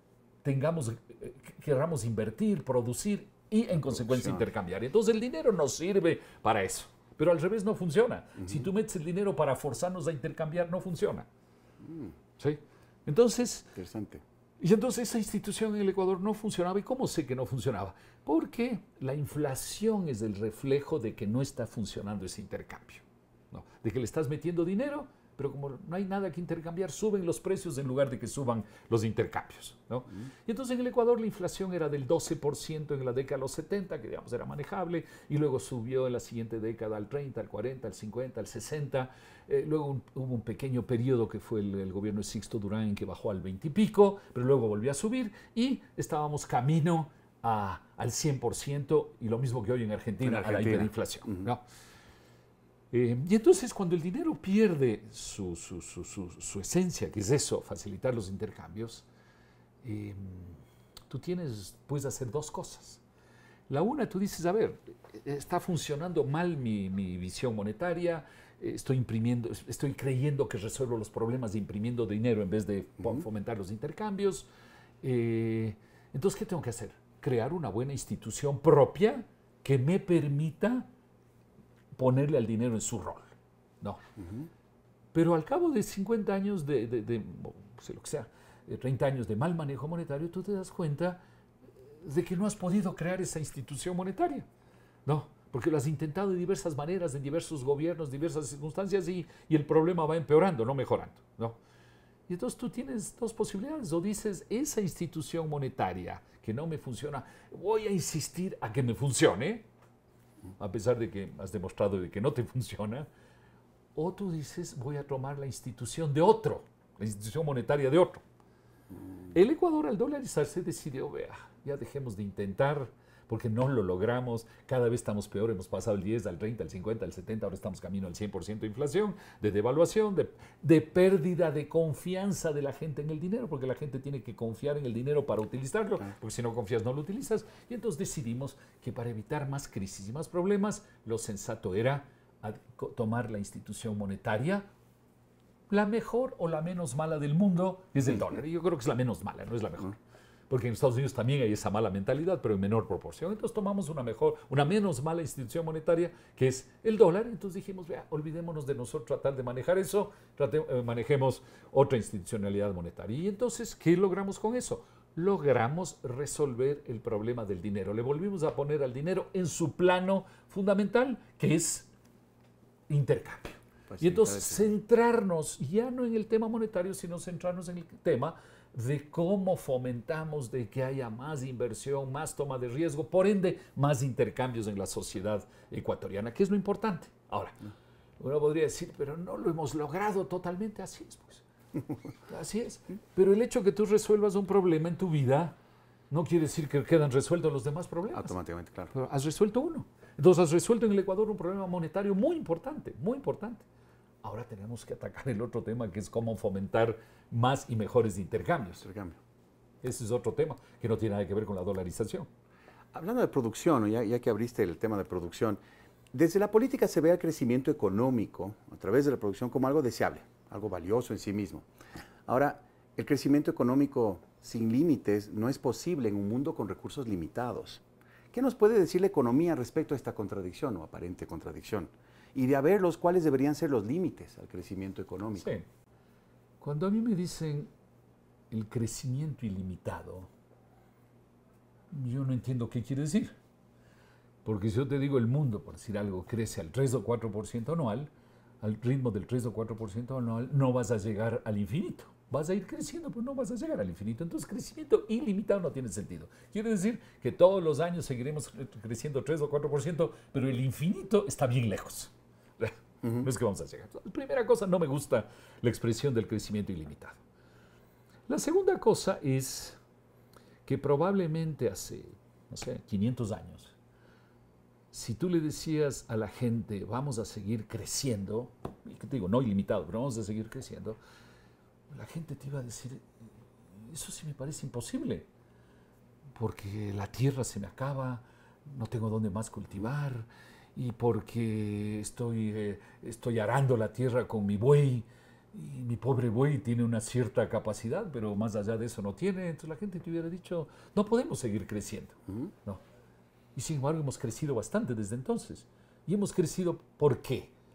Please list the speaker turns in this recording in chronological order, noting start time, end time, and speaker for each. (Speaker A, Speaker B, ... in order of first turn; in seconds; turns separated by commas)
Speaker A: 0.4-11.3, Speaker B: 3.9-4.4, Speaker B: 11.8-12.1, Speaker A: 12.4-13.8, Speaker B: 13.8-14.2, Speaker A: 14.6-51.6, Speaker B: 50.2-51.5, Speaker A: 52.9-59.1, Speaker A: 59.8-63.0, Speaker A: 63.7-74.5, Speaker A: 75.0-80.9, Speaker A: 82.0-84.0, Speaker B: 84.2-84.5, Speaker A: 85.1-91.2, Speaker A: 92.0-94.5, Speaker A: 95.1-101.6, Speaker A: 102.3-109.7, Speaker A: 110.6-113.1, Speaker A: 114.0-118.2, Speaker A: 119.3-144.7, Speaker A: 145.7-150.0, Speaker A: 150.5-171.9, Speaker A: 172.9-187.6, Speaker B: 173.9-174.7, Speaker A: 188.2-191.4, Speaker A: 192.3-195.6, Speaker A: 196.1-198.4, Speaker B: 198.1-198.9, Speaker A: 198.9-203.7, Speaker A: 204.2-208.9, Speaker B: 208.8-209.2, Speaker A: 209.8-212.3, Speaker B: 212.9-215.6, Speaker B: 216.1-221.7, Speaker B: 222.3-227.8, Speaker B: 228.3-235.5, Speaker A: 235.4-235.7, Speaker A: 236.6-237.7, Speaker A: 238.5-240.3, Speaker A: 241.9-243.4, Speaker A: 244.4-267.2, Speaker A: 268.3-269.8, Speaker A: 270.7-273.8, Speaker A: 274.9-281.0, Speaker A: 281.9-283.1, Speaker A: 283.8-285.3, Speaker A: 286.4-302.8, Speaker A: 303.6-307.5